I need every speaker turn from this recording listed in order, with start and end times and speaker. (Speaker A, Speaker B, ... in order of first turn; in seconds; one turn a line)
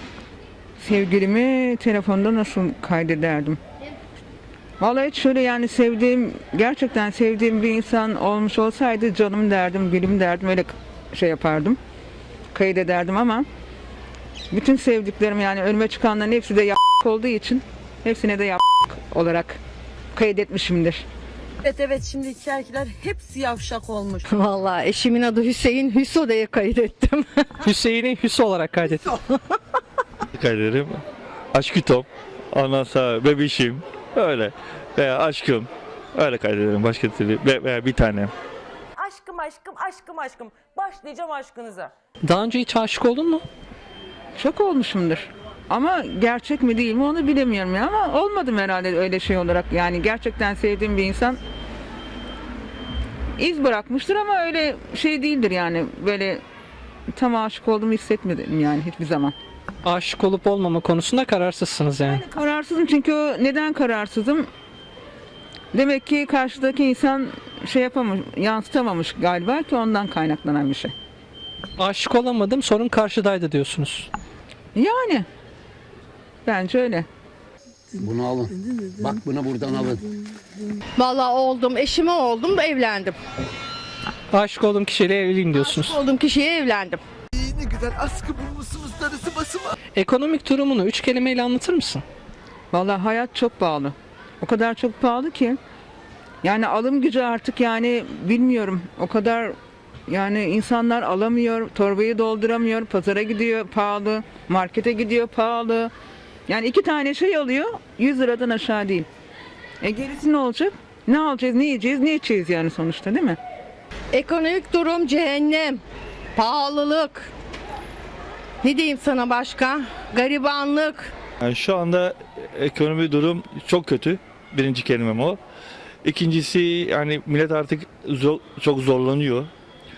Speaker A: 0.8-3.6
Speaker A: 4.8-11.8
Speaker A: 12.5-13.4
Speaker A: 14.5-19.6
Speaker A: 20.1-21.1
Speaker B: 21.6-24.2
Speaker C: 24.3-27.5
Speaker D: 27.6-29.4
Speaker E: 30.3-31.0
Speaker E: 31.5-38.3
Speaker F: 39.0-41.9
Speaker D: 42.2-43.4
Speaker A: 44.4-51.4
Speaker A: 53.4-56.4
Speaker A: 57.1-59.3
Speaker D: 59.8-62.2
Speaker A: 62.0-64.5
Speaker A: 65.7-70.9
Speaker D: 71.8-74.1
Speaker A: 74.7-75.3
Speaker A: 76.4-77.1
Speaker G: 77.9-80.1
Speaker C: 81.0-83.2
Speaker D: 84.3-86.0
Speaker C: 85.6-87.0
Speaker H: 87.3-89.7
Speaker D: 89.9-92.0
Speaker A: 92.7-95.6
Speaker A: 96.4-99.5
Speaker A: 100.1-105.9
Speaker A: 106.5-109.1
Speaker A: 109.8-113.4
Speaker C: 114.1-115.8
Speaker C: 116.3-117.3
Speaker C: 118.6-121.1
Speaker E: 121.4-125.4
Speaker E: 126.0-129.5